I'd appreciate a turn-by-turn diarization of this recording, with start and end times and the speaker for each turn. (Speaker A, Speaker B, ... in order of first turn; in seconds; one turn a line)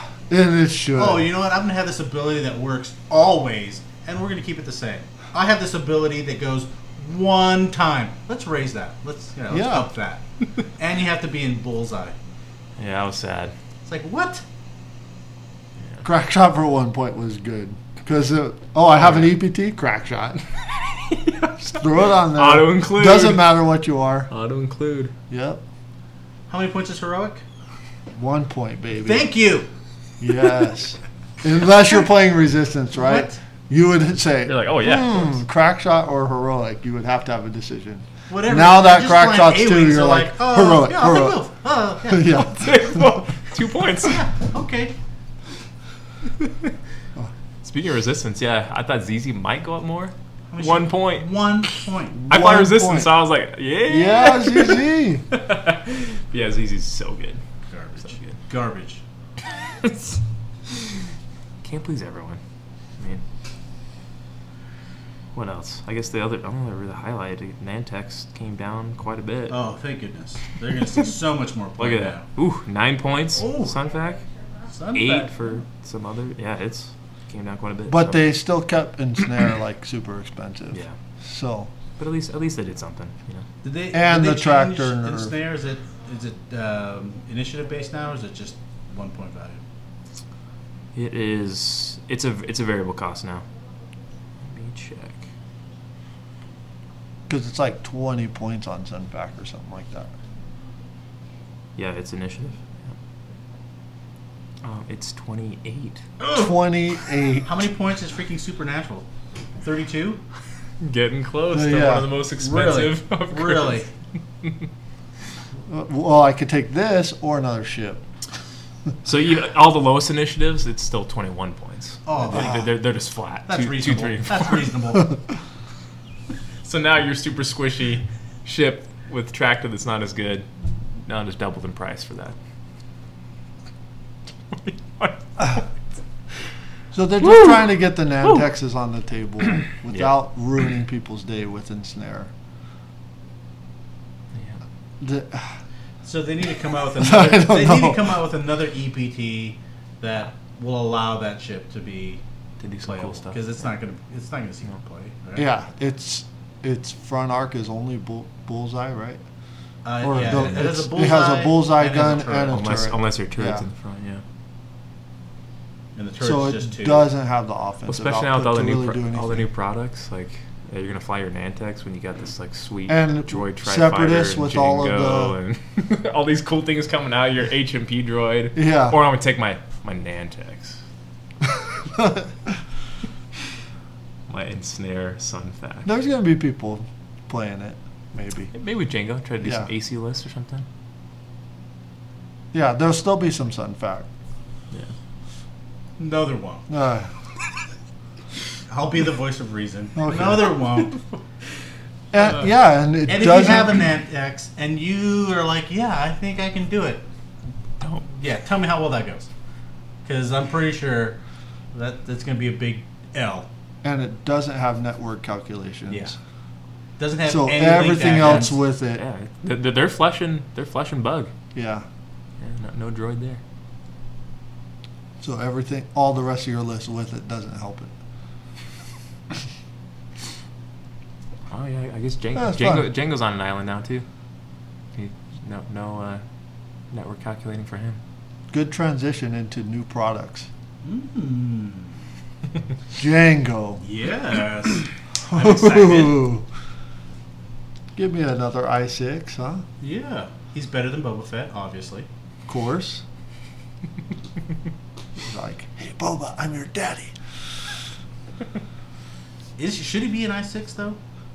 Speaker A: 0.3-1.3
Speaker B: 0.9-12.2
Speaker A: 9.5-9.9
Speaker C: 12.8-13.5
Speaker B: 13.8-14.4
Speaker A: 16.0-20.4
Speaker C: 19.0-19.3
Speaker C: 20.8-23.5
Speaker A: 21.6-24.3
Speaker C: 24.3-25.1
Speaker A: 25.3-25.6
Speaker B: 26.5-27.4
Speaker A: 28.1-29.3
Speaker B: 29.0-29.7
Speaker A: 30.2-41.4
Speaker B: 33.0-33.4
Speaker C: 34.4-35.4
Speaker B: 38.3-42.4
Speaker A: 42.1-43.1
Speaker C: 42.5-44.2
Speaker B: 44.0-44.9
Speaker C: 46.4-46.7
Speaker C: 47.6-51.3
Speaker B: 50.5-52.2
Speaker A: 52.1-53.2
Speaker C: 52.3-57.4
Speaker A: 53.9-55.2
Speaker B: 57.7-59.0
Speaker C: 58.0-58.4
Speaker C: 59.6-60.2
Speaker C: 61.6-62.4
Speaker C: 65.3-69.6
Speaker B: 69.5-72.2
Speaker C: 71.8-74.2
Speaker B: 73.4-73.7
Speaker B: 74.7-75.4
Speaker C: 74.9-78.2
Speaker A: 77.9-81.7
Speaker C: 82.0-83.5
Speaker B: 83.6-89.6
Speaker A: 83.9-85.3
Speaker C: 90.9-93.4
Speaker C: 94.4-95.3
Speaker A: 97.3-100.1
Speaker C: 101.8-102.6
Speaker C: 104.6-106.0
Speaker B: 106.2-106.5
Speaker A: 106.3-107.5
Speaker B: 107.4-109.1
Speaker B: 109.6-110.2
Speaker C: 110.8-113.8
Speaker A: 111.5-112.1
Speaker B: 112.4-113.9
Speaker A: 115.7-118.0
Speaker C: 119.0-124.7
Speaker B: 122.0-122.7
Speaker A: 122.3-122.6
Speaker B: 123.5-125.2
Speaker C: 126.6-132.3
Speaker C: 134.5-135.7
Speaker A: 136.9-142.3
Speaker C: 137.2-137.6
Speaker A: 145.0-145.6
Speaker B: 146.0-152.2
Speaker A: 146.9-148.1
Speaker C: 152.6-153.4
Speaker B: 152.8-155.5
Speaker A: 155.3-159.2
Speaker B: 159.8-162.8
Speaker A: 160.0-163.6
Speaker C: 162.5-164.2
Speaker B: 165.9-167.1
Speaker A: 166.2-169.5
Speaker C: 167.8-180.8
Speaker A: 172.9-175.3
Speaker A: 178.5-179.0
Speaker A: 181.8-182.5
Speaker C: 184.3-185.9
Speaker A: 185.8-188.5
Speaker C: 188.5-190.7
Speaker A: 189.4-189.7
Speaker A: 192.5-194.1
Speaker B: 196.0-196.7
Speaker A: 196.7-197.1
Speaker B: 198.7-201.0
Speaker A: 200.0-200.6
Speaker A: 202.1-203.8
Speaker B: 203.1-207.0
Speaker C: 207.8-208.1
Speaker B: 208.1-209.3
Speaker B: 210.0-211.2
Speaker B: 211.7-213.5
Speaker A: 213.8-216.2
Speaker B: 215.9-216.1
Speaker B: 217.0-218.6
Speaker A: 217.2-219.0
Speaker C: 218.9-221.3
Speaker A: 221.5-221.8
Speaker C: 222.4-223.4
Speaker A: 225.2-227.9
Speaker C: 231.5-234.1
Speaker A: 232.3-232.9
Speaker C: 234.9-236.2
Speaker C: 236.9-238.0
Speaker A: 238.5-240.5
Speaker B: 240.8-242.0
Speaker A: 242.9-243.8
Speaker B: 243.8-246.3
Speaker A: 245.3-246.4
Speaker A: 247.9-249.6
Speaker B: 249.8-252.1
Speaker A: 252.5-253.0
Speaker A: 255.2-257.1
Speaker B: 259.6-261.0